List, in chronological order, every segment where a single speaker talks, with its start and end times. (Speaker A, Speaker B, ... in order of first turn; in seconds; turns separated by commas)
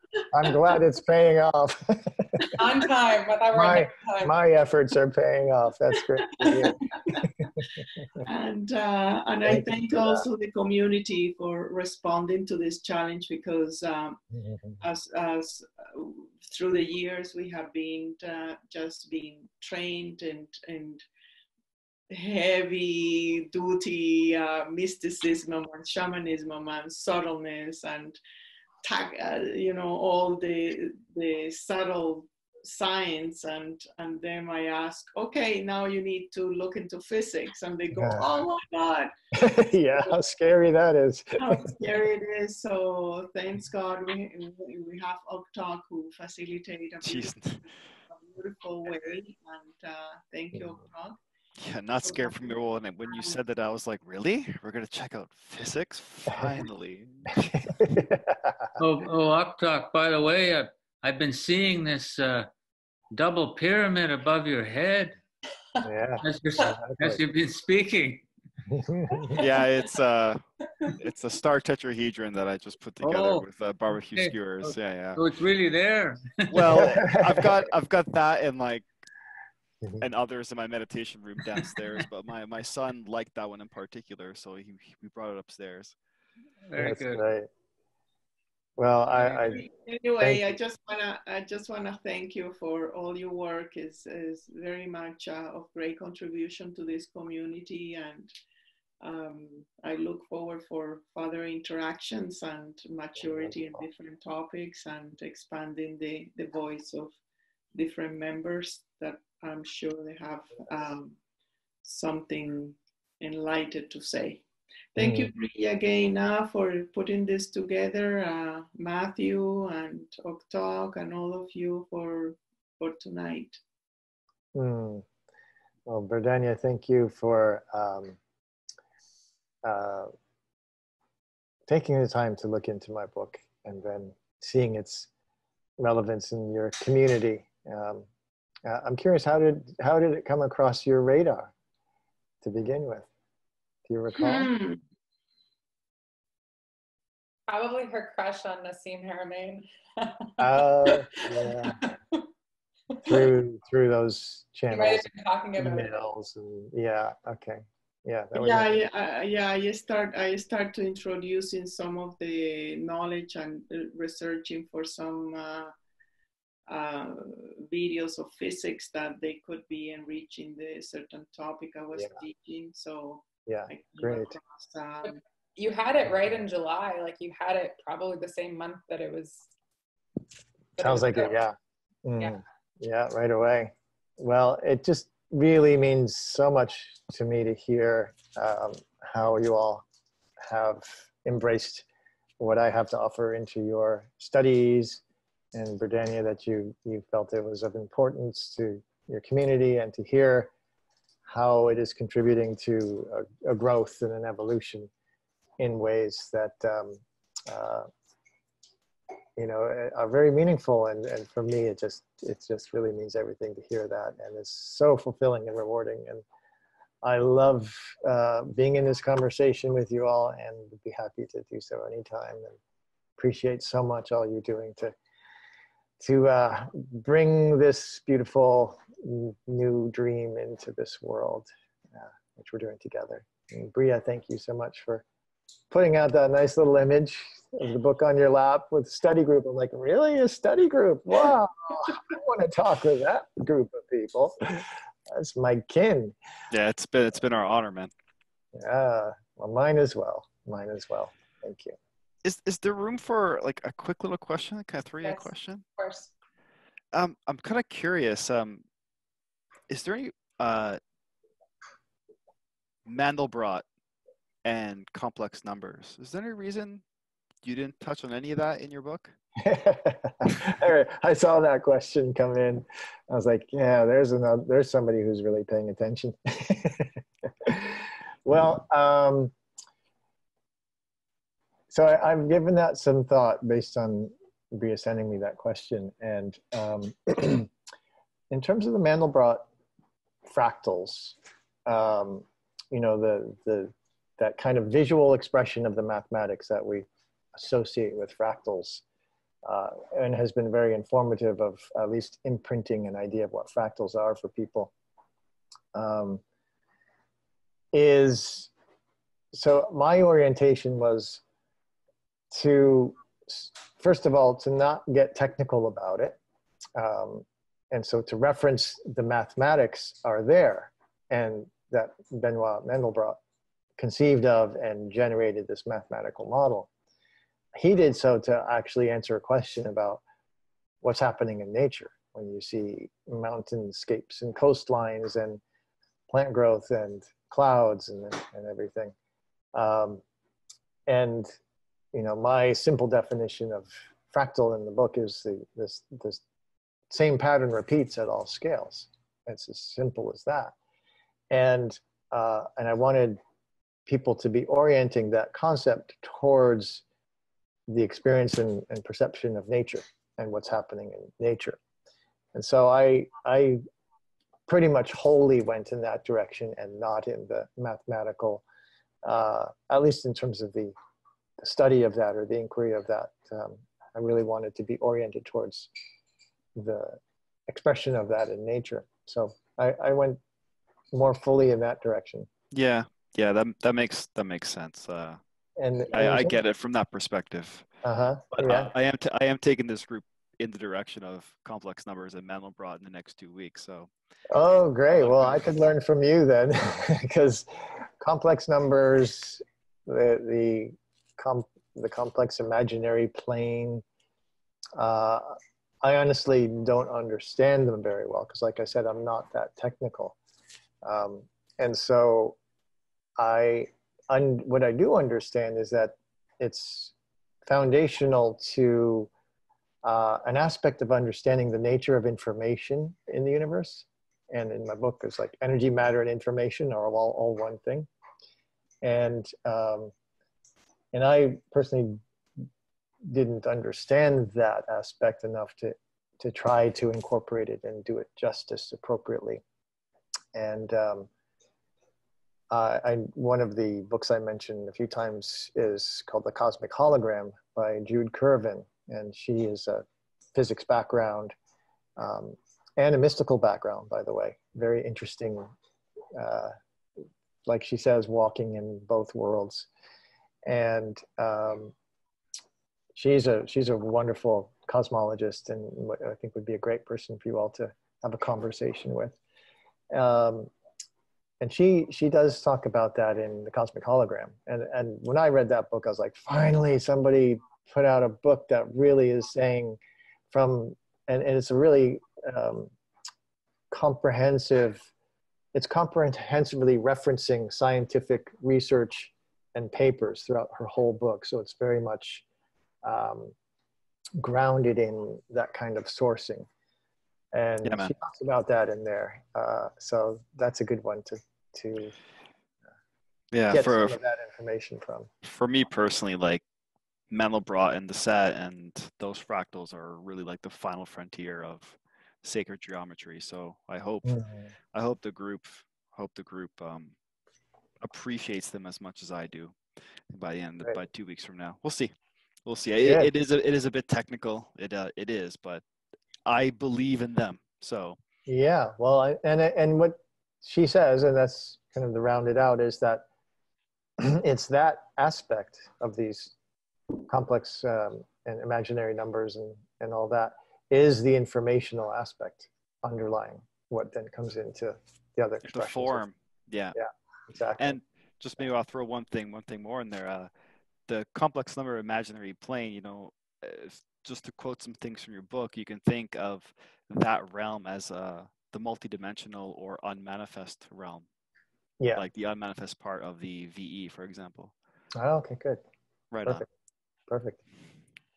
Speaker A: 0.3-2.5, Speaker B: 2.5-4.3, Speaker A: 3.5-8.2, Speaker C: 6.4-7.2, Speaker C: 8.2-14.2, Speaker A: 9.4-10.2, Speaker A: 14.3-14.8, Speaker C: 14.8-21.0, Speaker C: 22.1-28.2, Speaker C: 28.8-39.1, Speaker A: 37.9-38.4, Speaker A: 39.3-41.8, Speaker C: 41.4-51.2, Speaker D: 47.0-47.6, Speaker D: 51.6-57.6, Speaker C: 52.0-53.4, Speaker A: 56.3-56.6, Speaker A: 57.5-58.8, Speaker E: 58.8-62.5, Speaker E: 63.1-65.2, Speaker A: 65.8-67.2, Speaker E: 66.2-68.2, Speaker A: 68.7-69.4, Speaker D: 69.4-75.2, Speaker E: 73.0-73.4, Speaker E: 74.1-77.0, Speaker D: 76.5-78.9, Speaker A: 76.8-77.5, Speaker D: 80.0-86.0, Speaker E: 86.7-87.2, Speaker A: 86.8-87.5, Speaker A: 88.8-89.6, Speaker E: 89.1-89.6, Speaker C: 89.5-98.3, Speaker C: 99.0-107.1, Speaker A: 103.2-103.5, Speaker C: 107.7-111.2, Speaker C: 111.8-123.6, Speaker A: 115.0-115.3, Speaker A: 124.5-125.0, Speaker A: 125.8-128.2, Speaker A: 129.6-130.1, Speaker A: 131.7-135.1, Speaker A: 135.8-138.1, Speaker A: 138.6-141.5, Speaker A: 142.4-143.1, Speaker A: 143.8-144.5, Speaker C: 144.1-144.8, Speaker B: 147.5-150.3, Speaker A: 150.4-151.8, Speaker B: 150.8-152.2, Speaker B: 152.9-153.2, Speaker A: 153.1-158.8, Speaker B: 154.7-155.9, Speaker C: 158.3-165.7, Speaker C: 166.7-175.2, Speaker A: 173.5-174.4, Speaker B: 175.0-179.5, Speaker B: 180.8-181.3, Speaker A: 180.8-189.8, Speaker A: 190.4-191.8, Speaker A: 192.4-195.0, Speaker A: 195.5-200.5, Speaker A: 201.3-204.9, Speaker A: 205.6-207.9, Speaker A: 209.4-216.2, Speaker A: 217.0-222.6, Speaker A: 223.2-224.9, Speaker A: 226.0-235.0, Speaker A: 235.7-246.2, Speaker D: 246.5-247.9, Speaker A: 248.5-251.8, Speaker D: 252.2-255.6, Speaker B: 255.0-256.1, Speaker D: 256.9-258.6, Speaker D: 259.7-260.8, Speaker D: 262.9-263.6, Speaker D: 264.4-266.8, Speaker D: 267.4-269.1, Speaker A: 269.4-279.3, Speaker A: 281.7-287.5, Speaker A: 288.3-289.4, Speaker A: 290.2-298.8, Speaker A: 299.4-304.7, Speaker A: 305.7-306.2, Speaker A: 307.7-308.5, Speaker A: 309.3-311.2, Speaker A: 312.3-316.2, Speaker A: 316.8-323.2, Speaker A: 323.8-326.7, Speaker A: 327.6-330.0, Speaker A: 330.8-335.4, Speaker A: 336.1-338.9, Speaker A: 339.5-340.0, Speaker A: 340.9-341.3, Speaker A: 341.9-346.2, Speaker A: 346.9-350.5, Speaker A: 351.3-353.2, Speaker A: 353.9-356.8, Speaker A: 357.7-361.6, Speaker A: 362.3-363.6, Speaker A: 364.5-368.4, Speaker A: 369.0-370.7, Speaker A: 371.4-375.7, Speaker A: 376.6-380.2, Speaker A: 380.9-382.3, Speaker D: 382.5-385.2, Speaker A: 385.6-386.4, Speaker D: 385.9-387.7, Speaker A: 387.8-388.7, Speaker D: 388.3-393.9, Speaker A: 394.3-403.8, Speaker D: 394.9-395.5, Speaker A: 404.8-410.2, Speaker A: 410.8-412.4, Speaker A: 413.2-416.9, Speaker A: 417.4-419.1, Speaker A: 419.8-427.9, Speaker A: 428.8-429.9, Speaker A: 430.9-432.0, Speaker A: 433.1-439.4, Speaker A: 440.3-441.1, Speaker A: 442.5-451.3, Speaker A: 452.0-455.5, Speaker A: 456.1-456.5, Speaker A: 457.4-459.7, Speaker A: 460.4-461.7, Speaker A: 462.9-469.2, Speaker A: 469.9-470.5, Speaker A: 471.4-479.8, Speaker A: 480.3-482.7, Speaker A: 483.7-484.8, Speaker A: 485.5-492.2, Speaker A: 492.8-493.3, Speaker A: 494.2-496.5, Speaker A: 497.3-501.9, Speaker D: 497.6-497.9, Speaker D: 503.3-504.0, Speaker A: 503.5-505.1, Speaker D: 505.2-506.4, Speaker D: 507.1-514.1, Speaker A: 514.0-514.5, Speaker D: 514.7-516.9, Speaker D: 517.8-519.6, Speaker D: 520.1-521.9, Speaker D: 522.5-525.6, Speaker A: 522.8-523.1, Speaker D: 526.2-528.0, Speaker A: 528.3-533.0, Speaker A: 534.0-536.3, Speaker A: 537.1-546.0, Speaker D: 545.5-546.8, Speaker A: 546.7-547.8, Speaker D: 547.6-550.3, Speaker D: 550.9-561.0, Speaker D: 561.9-564.5, Speaker A: 564.9-565.6, Speaker D: 566.1-566.4, Speaker A: 567.1-567.4